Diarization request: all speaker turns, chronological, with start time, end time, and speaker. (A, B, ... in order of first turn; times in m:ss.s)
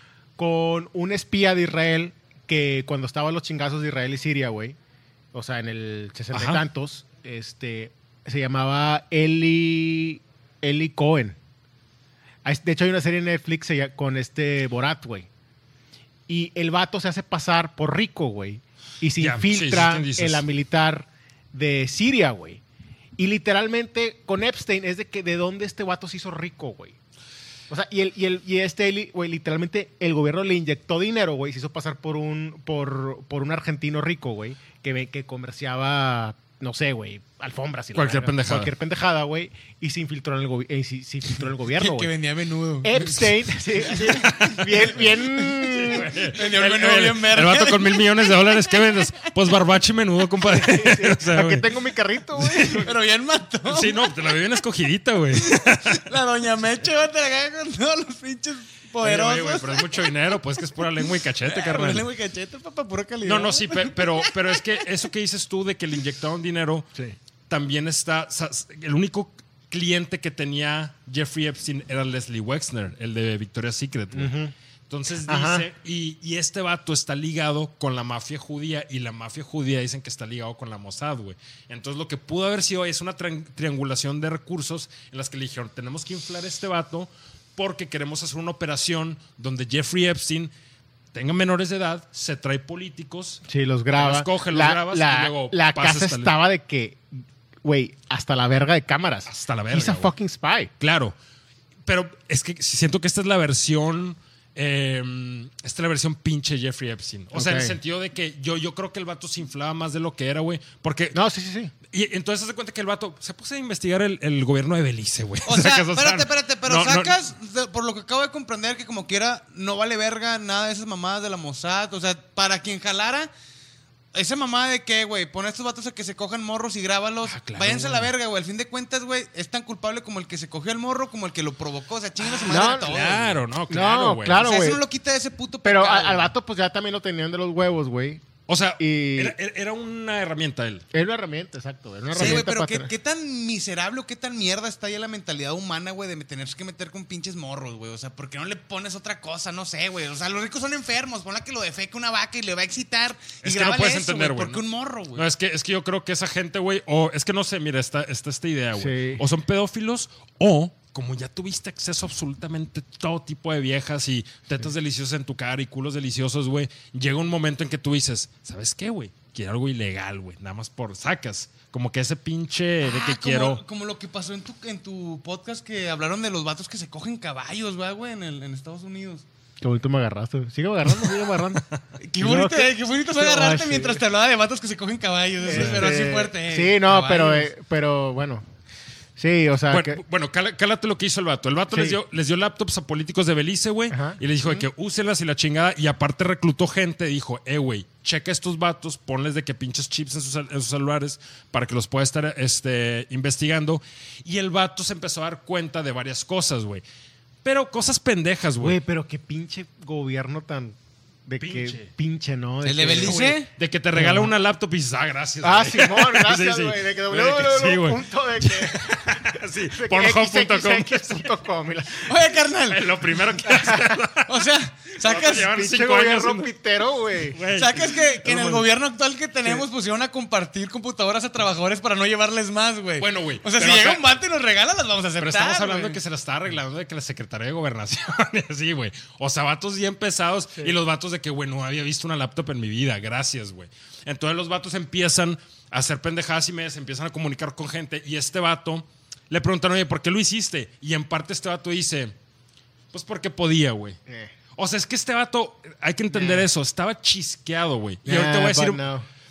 0:00.4-0:04.8 A
0:05.3-0:11.4 A
0:06.3-0:06.6 B
0:12.4-0:15.3 A
0:16.3-0:22.6 A
0:19.2-0:20.4 B
0:23.2-0:27.0 A
0:27.7-0:42.1 A
0:37.9-0:38.7 B
0:41.6-0:43.2 C
0:42.8-0:46.1 A
0:43.8-0:44.7 C
0:44.1-0:51.7 B
0:45.6-0:49.3 C
0:50.4-0:52.9 A
0:52.4-0:52.9 B
0:52.7-0:54.4 C
0:53.6-0:56.1 B
0:55.4-1:04.9 C
0:59.0-1:02.0 B
1:03.2-1:06.9 B
1:07.5-1:14.4 B
1:14.1-1:14.5 A
1:14.9-1:30.5 B
1:15.2-1:15.6 A
1:31.1-1:33.4 B
1:33.5-1:40.7 A
1:33.9-1:36.3 B
1:39.2-1:40.1 B
1:40.8-1:41.1 B
1:41.8-1:51.2 B
1:47.3-1:47.8 A
1:51.1-1:51.7 A
1:51.9-1:57.1 B
1:55.4-2:03.3 C
2:04.1-2:13.4 C
2:07.2-2:08.1 B
2:12.4-2:12.9 A
2:12.5-2:14.5 B
2:13.7-2:14.8 A
2:14.4-2:16.3 C
2:15.6-2:18.2 A
2:18.5-2:20.8 B
2:18.8-2:19.3 A
2:20.9-2:22.9 A
2:22.1-2:35.2 C
2:22.2-2:22.4 B
2:33.4-2:34.6 B
2:35.1-2:53.6 B
2:38.8-2:39.2 A
2:52.8-2:59.2 C
2:59.6-3:01.6 A
3:00.8-3:01.8 B
3:02.0-3:07.5 C
3:02.2-3:04.0 A
3:05.4-3:08.4 A
3:05.5-3:05.9 B
3:09.2-3:10.0 A
3:09.7-3:26.8 B
3:11.7-3:12.0 A
3:13.9-3:14.2 A
3:27.4-3:28.8 B
3:28.6-3:33.4 A
3:31.4-3:31.9 B
3:32.6-3:33.5 C
3:32.9-3:41.3 B
3:33.9-3:34.3 A
3:35.4-3:42.1 A
3:42.0-3:42.9 C
3:42.7-3:44.5 B
3:43.5-3:44.0 A
3:44.2-3:45.5 C
3:45.0-3:46.5 B
3:45.3-3:47.4 A
3:47.3-3:48.7 B
3:47.5-3:56.0 C
3:53.0-3:54.1 B
3:55.2-4:12.1 B
4:12.9-4:14.0 B
4:14.1-4:14.3 A
4:14.6-4:18.8 B
4:16.1-4:16.5 A
4:18.0-4:19.0 A